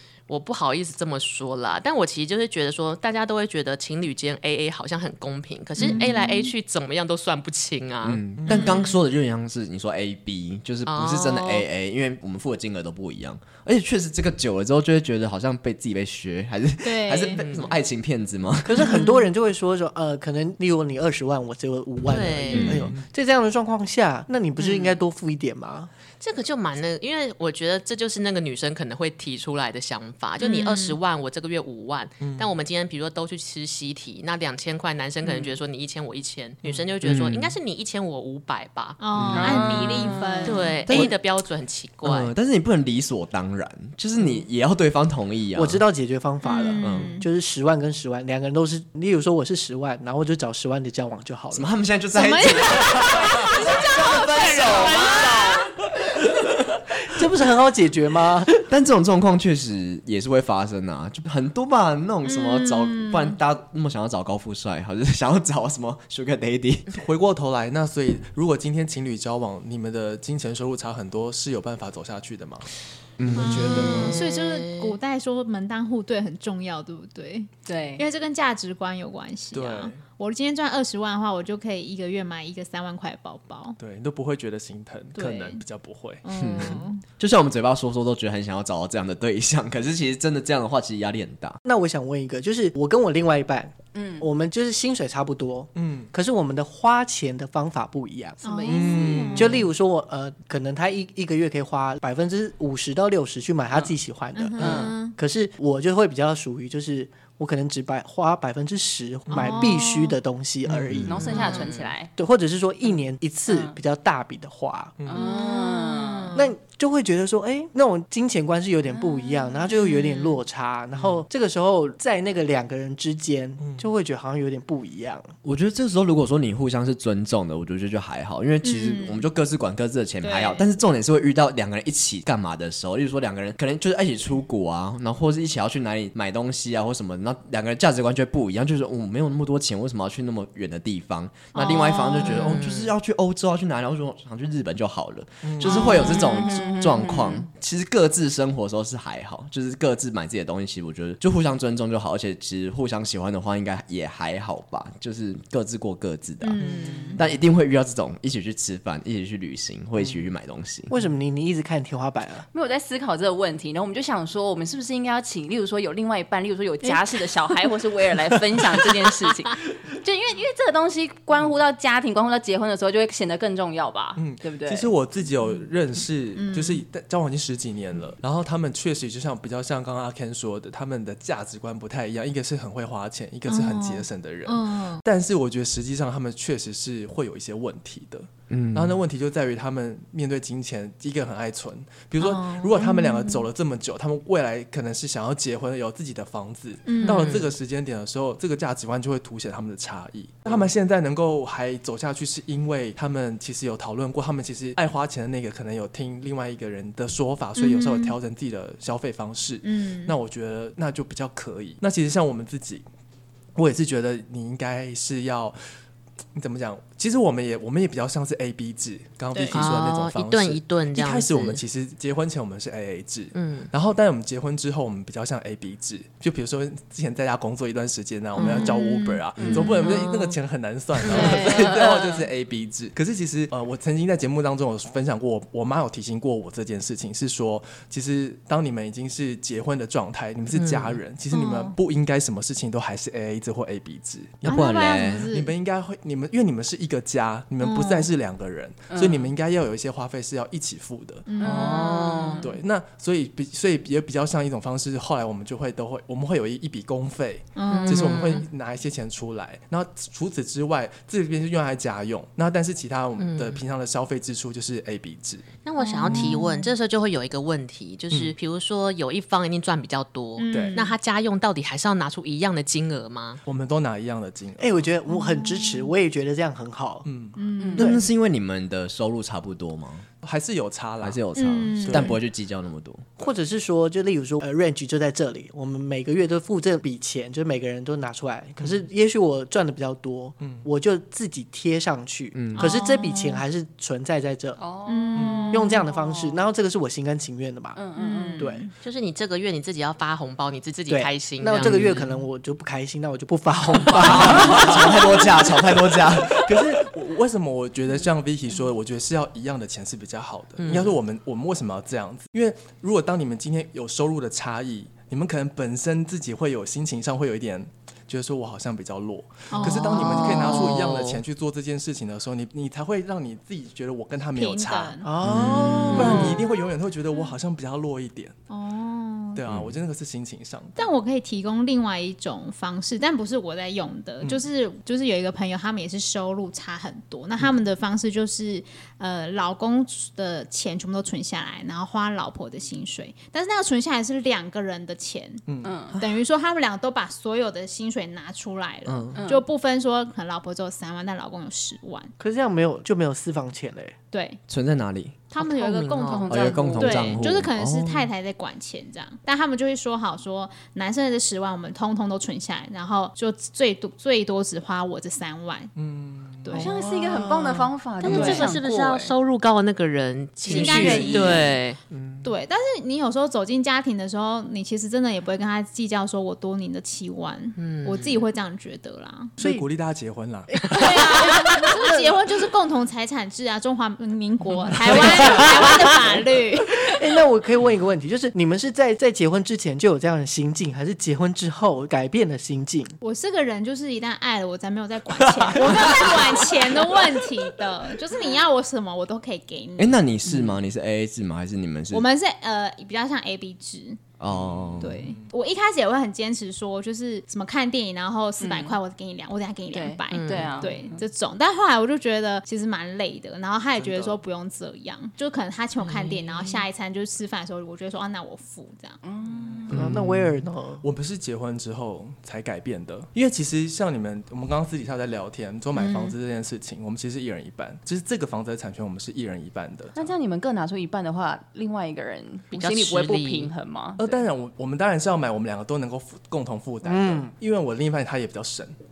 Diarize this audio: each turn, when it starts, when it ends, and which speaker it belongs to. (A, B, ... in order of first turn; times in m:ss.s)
0:00.3-0:08.2 A
0:05.8-0:06.5 B
0:08.0-0:19.0 C
0:08.4-0:08.8 D
0:08.5-0:09.0 B
0:10.8-0:11.7 A
0:16.8-0:17.4 B
0:17.4-0:17.7 A
0:18.6-0:25.9 E
0:18.8-0:19.2 B
0:22.1-0:22.9 A
0:22.5-0:22.8 C
0:22.7-0:23.0 D
0:26.2-0:39.5 A
0:30.4-0:31.0 B
0:32.2-0:32.5 D
0:35.2-0:35.5 F
0:36.6-0:36.9 D
0:37.0-0:37.6 C
0:39.0-0:41.0 B
0:39.1-0:39.9 C
0:39.3-0:40.8 F
0:40.4-0:42.3 A
0:42.0-0:45.8 C
0:45.5-0:51.6 E
0:46.4-0:47.3 B
0:46.8-0:47.1 C
0:51.5-0:55.7 C
0:52.1-0:55.7 B
0:57.1-0:58.5 E
0:58.6-1:06.9 C
1:02.2-1:03.4 B
1:06.9-1:12.7 D
1:13.2-1:14.3 C
1:13.3-1:14.2 D
1:13.3-1:23.8 B
1:17.6-1:18.0 F
1:19.5-1:20.0 D
1:23.8-1:26.2 D
1:25.2-1:25.6 B
1:26.2-1:27.0 B
1:26.4-1:31.6 C
1:31.6-1:38.4 E
1:33.9-1:34.2 F
1:35.7-1:36.1 D
1:38.4-1:39.3 F
1:38.4-1:39.6 B
1:38.7-1:39.6 D
1:39.3-1:51.3 E
1:44.4-1:45.1 B
1:44.6-1:44.9 F
1:49.3-1:49.6 D
1:49.3-1:50.2 B
1:50.7-1:51.0 D
1:51.0-1:52.1 F
1:51.2-1:51.9 A
1:51.4-1:51.6 B
1:52.2-1:55.0 E
1:53.5-1:53.7 F
1:55.0-1:55.4 D
1:55.1-1:56.4 F
1:55.1-1:56.5 B
1:56.3-2:05.3 E
1:58.9-2:00.2 B
2:05.4-2:36.6 C
2:08.6-2:09.2 B
2:10.2-2:10.6 B
2:21.5-2:22.6 B
2:22.2-2:22.9 A
2:25.4-2:26.0 D
2:25.6-2:27.5 F
2:26.2-2:26.6 B
2:36.4-2:37.2 B
2:36.6-2:37.2 D
2:37.2-2:40.9 C
2:40.9-2:42.4 E
2:42.5-2:54.9 F
2:54.2-3:32.8 D
2:56.3-2:56.8 B
3:03.5-3:05.0 B
3:08.5-3:09.0 C
3:12.2-3:13.4 B
3:16.8-3:17.5 B
3:27.6-3:28.2 B
3:29.6-3:30.1 B
3:33.5-3:35.6 D
3:36.3-4:04.6 D
3:39.3-3:39.6 B
3:39.5-3:41.6 A
3:43.3-3:43.7 A
3:48.4-3:48.7 A
3:48.4-3:50.0 B
3:49.4-3:49.9 F
3:49.5-3:50.3 A
3:51.1-3:52.3 F
3:51.1-3:51.4 B
4:00.5-4:01.0 A
4:01.3-4:01.7 B
4:04.4-4:05.3 C
4:04.4-4:05.5 B
4:05.3-4:11.2 D
4:07.6-4:08.1 B
4:08.9-4:09.3 F
4:11.2-4:11.9 B
4:11.4-4:12.5 F
4:11.4-4:12.4 A
4:12.4-4:25.5 D
4:17.6-4:18.3 B
4:17.7-4:18.4 A
4:23.2-4:23.6 A
4:25.6-4:33.4 A
4:25.8-4:26.7 B
4:30.4-4:30.9 B
4:30.5-4:30.8 D
4:33.4-4:34.8 D
4:34.6-4:37.0 E
4:35.1-4:35.9 B
4:37.0-4:37.4 D
4:37.4-4:37.9 B
4:37.6-4:37.9 F
4:37.8-4:38.0 E
4:37.8-4:40.1 C
4:40.2-4:42.2 D
4:41.0-4:43.0 C
4:41.4-4:42.2 B
4:43.2-4:54.6 E
4:52.3-4:52.8 C
4:52.5-4:53.4 B
4:54.6-4:55.5 F
4:54.9-4:55.9 B
4:55.2-4:55.7 D
4:55.5-4:57.8 E
4:57.7-4:58.5 F
4:58.0-4:58.7 B
4:58.4-4:58.6 E
4:58.8-5:01.9 A
5:00.9-5:05.3 E
5:03.9-5:06.5 C
5:06.3-5:28.3 D
5:10.6-5:11.0 A
5:19.5-5:20.7 B
5:19.7-5:21.2 A
5:24.3-5:25.0 B
5:25.0-5:26.4 E
5:25.3-5:26.1 C
5:25.9-5:26.6 B
5:28.5-5:29.4 B
5:29.3-5:30.8 D
5:30.8-5:52.1 B
5:45.4-5:45.8 D
5:45.6-5:46.0 F
5:48.8-5:49.2 C
5:49.1-5:49.5 F
5:52.2-5:53.9 E
5:54.1-5:54.4 B
5:54.5-5:55.2 C
5:55.3-6:05.7 B
5:55.4-5:56.4 A
5:56.0-5:57.2 F
5:56.3-5:58.1 C
6:05.7-6:06.6 D
6:06.4-6:06.7 B
6:06.5-6:09.1 F
6:08.0-6:11.8 A
6:08.1-6:08.5 B
6:10.5-6:11.5 B
6:10.6-6:11.3 E
6:10.6-6:12.3 C
6:10.8-6:11.1 D
6:12.2-6:19.4 B
6:17.6-6:18.2 A
6:19.4-6:20.6 D
6:19.4-6:19.7 E
6:20.5-6:22.2 E
6:20.7-6:26.9 B
6:25.0-6:25.5 E
6:26.8-6:32.9 E
6:33.0-6:40.0 B
6:35.3-6:36.3 D
6:39.8-6:42.0 C
6:41.9-6:44.1 B
6:44.2-6:44.9 C
6:44.3-6:45.3 D
6:44.8-6:59.0 B
6:48.4-6:48.8 F
6:49.7-6:50.8 F
6:50.1-6:50.6 A
6:53.8-6:54.2 D
6:55.9-6:56.6 F
6:59.0-6:59.9 F
6:59.3-7:10.1 D
6:59.7-7:00.8 E
7:05.7-7:06.1 B
7:10.0-7:14.2 F
7:12.5-7:13.5 A
7:14.0-7:18.7 D
7:16.8-7:17.3 E